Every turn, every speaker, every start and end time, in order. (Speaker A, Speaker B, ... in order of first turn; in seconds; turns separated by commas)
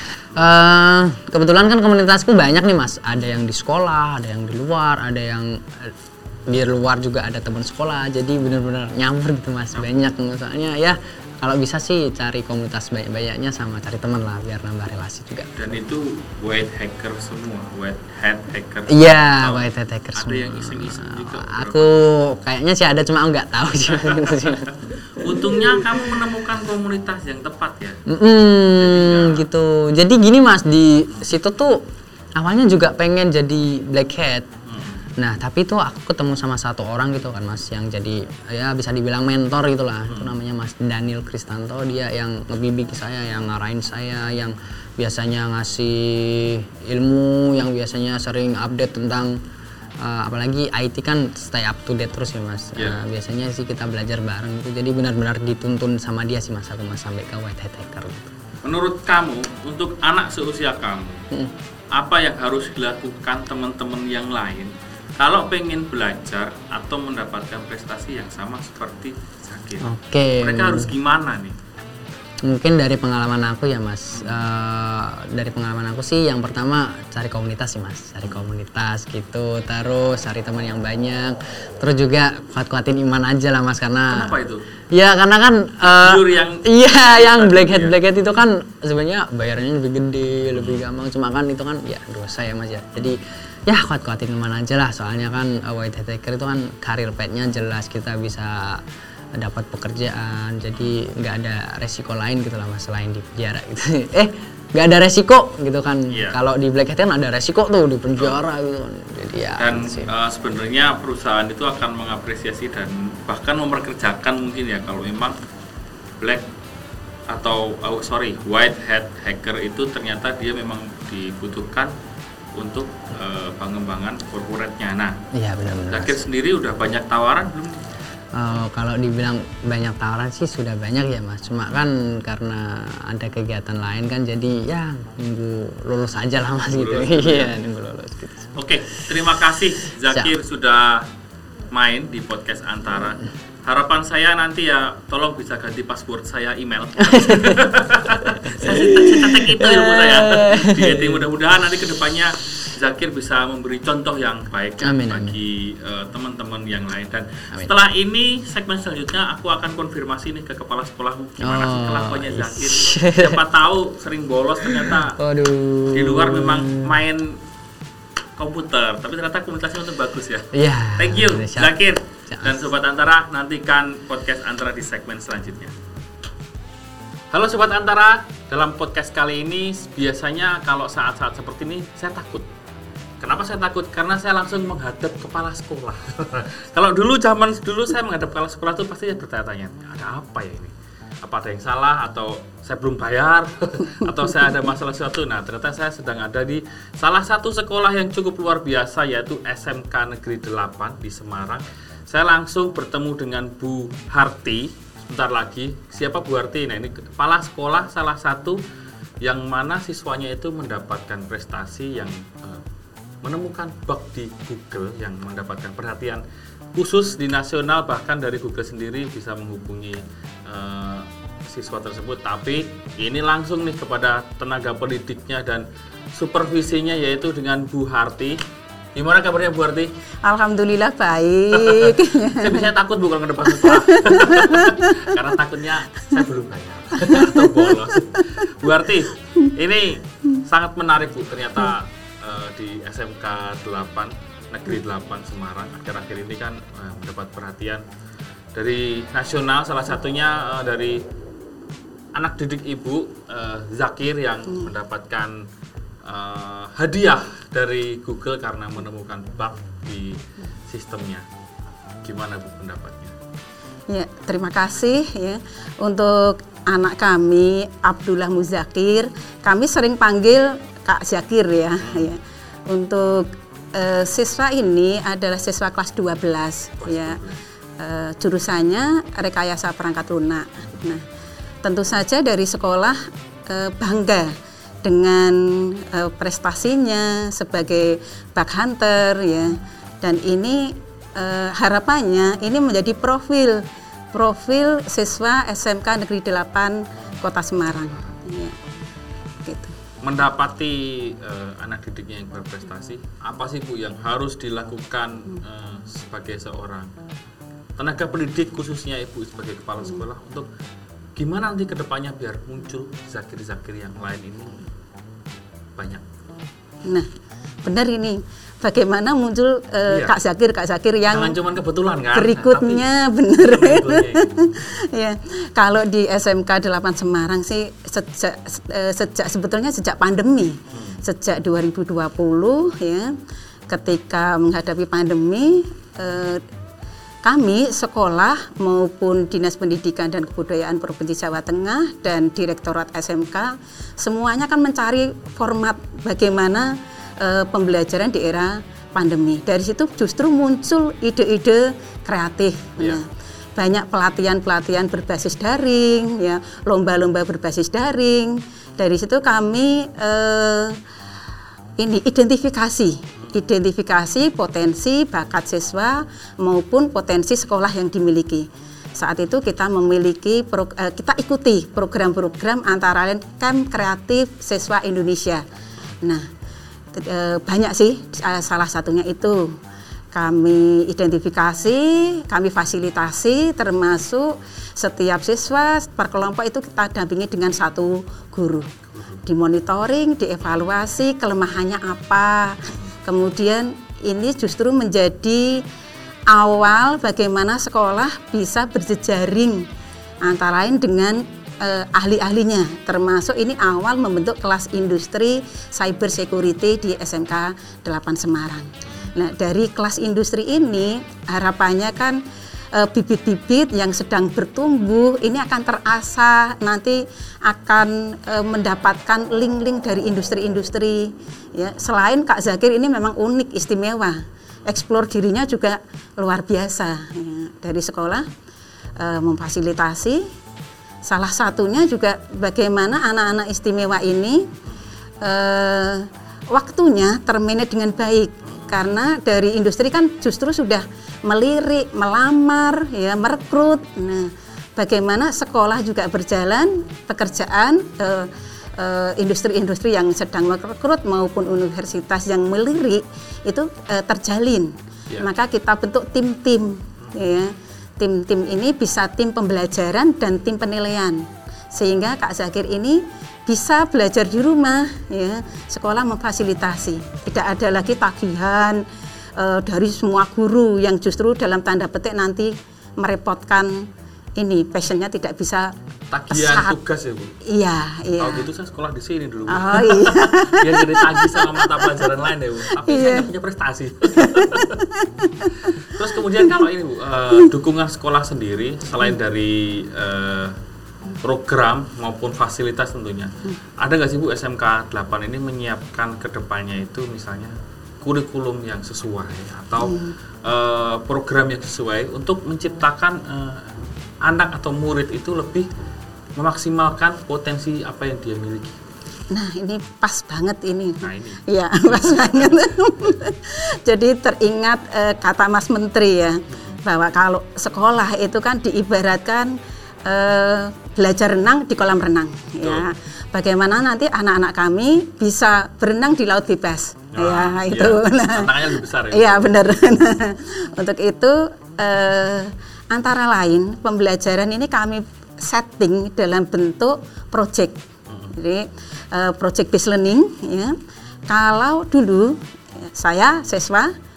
Speaker A: 0.4-6.0, Speaker A: 6.5-15.6, Speaker B: 15.6-21.9, Speaker A: 18.9-25.9, Speaker B: 23.9-28.0, Speaker A: 28.1-31.9, Speaker B: 28.8-29.5, Speaker A: 32.4-34.5, Speaker B: 34.7-35.1, Speaker A: 35.2-49.4, Speaker B: 40.1-40.4, Speaker A: 50.0-58.3, Speaker B: 58.6-61.2, Speaker B: 61.9-69.9, Speaker A: 69.8-70.9, Speaker B: 70.4-71.6, Speaker A: 72.4-84.3, Speaker B: 74.1-74.4, Speaker B: 84.1-84.6, Speaker A: 84.9-98.8, Speaker B: 85.9-88.0, Speaker B: 90.5-90.8, Speaker A: 99.4-110.1, Speaker B: 106.1-106.4, Speaker B: 109.6-115.4, Speaker B: 117.3-121.9, Speaker B: 122.6-125.2, Speaker A: 125.3-126.3, Speaker B: 125.9-127.8, Speaker A: 128.3-138.5, Speaker B: 136.7-137.6, Speaker B: 138.6-141.1, Speaker A: 140.1-140.3, Speaker B: 141.7-165.2, Speaker A: 147.0-147.7, Speaker A: 148.3-151.3, Speaker A: 154.8-155.4, Speaker A: 161.4-163.4, Speaker A: 164.6-167.0, Speaker B: 165.9-167.4, Speaker B: 168.4-175.7, Speaker A: 170.5-171.8, Speaker A: 172.3-172.7, Speaker B: 177.3-182.5, Speaker B: 183.2-208.6, Speaker B: 209.2-212.6, Speaker B: 213.2-216.2, Speaker B: 216.8-228.4, Speaker B: 228.9-229.9, Speaker C: 230.2-232.7, Speaker B: 231.6-247.8, Speaker C: 233.5-235.2, Speaker C: 237.0-238.2, Speaker B: 248.5-251.0, Speaker B: 252.2-255.4, Speaker B: 256.1-261.2, Speaker B: 262.0-263.1, Speaker C: 263.9-277.2, Speaker B: 271.8-272.1, Speaker B: 276.8-277.4, Speaker C: 277.8-281.0, Speaker C: 281.6-298.6, Speaker C: 299.5-299.7, Speaker B: 300.0-306.9, Speaker B: 307.8-310.5, Speaker B: 311.2-314.7, Speaker B: 315.8-316.0, Speaker C: 317.6-321.4, Speaker B: 319.9-320.1, Speaker B: 321.1-322.8, Speaker C: 322.1-333.2, Speaker B: 323.4-324.7, Speaker B: 330.7-331.0, Speaker C: 333.7-336.5, Speaker C: 337.2-353.1, Speaker C: 353.6-360.8, Speaker C: 361.8-375.4, Speaker C: 376.0-376.3, Speaker C: 376.9-379.6, Speaker C: 380.1-388.7, Speaker B: 388.9-389.2, Speaker C: 389.3-395.6, Speaker C: 396.3-399.7, Speaker C: 400.2-412.2, Speaker C: 412.7-428.3, Speaker C: 429.0-430.3, Speaker C: 431.1-434.5, Speaker C: 435.2-468.9, Speaker B: 438.4-438.9, Speaker C: 469.4-475.7, Speaker B: 476.1-477.4, Speaker C: 476.3-476.8, Speaker C: 477.4-478.5, Speaker B: 478.2-484.8, Speaker C: 479.5-482.1, Speaker C: 482.8-483.3, Speaker C: 484.1-485.7, Speaker B: 485.4-490.6, Speaker B: 491.2-505.7, Speaker C: 499.8-500.1, Speaker B: 506.4-508.8, Speaker C: 509.3-537.8, Speaker B: 511.0-513.1, Speaker B: 516.5-516.8, Speaker B: 527.1-529.6, Speaker B: 538.1-538.3, Speaker C: 538.3-543.9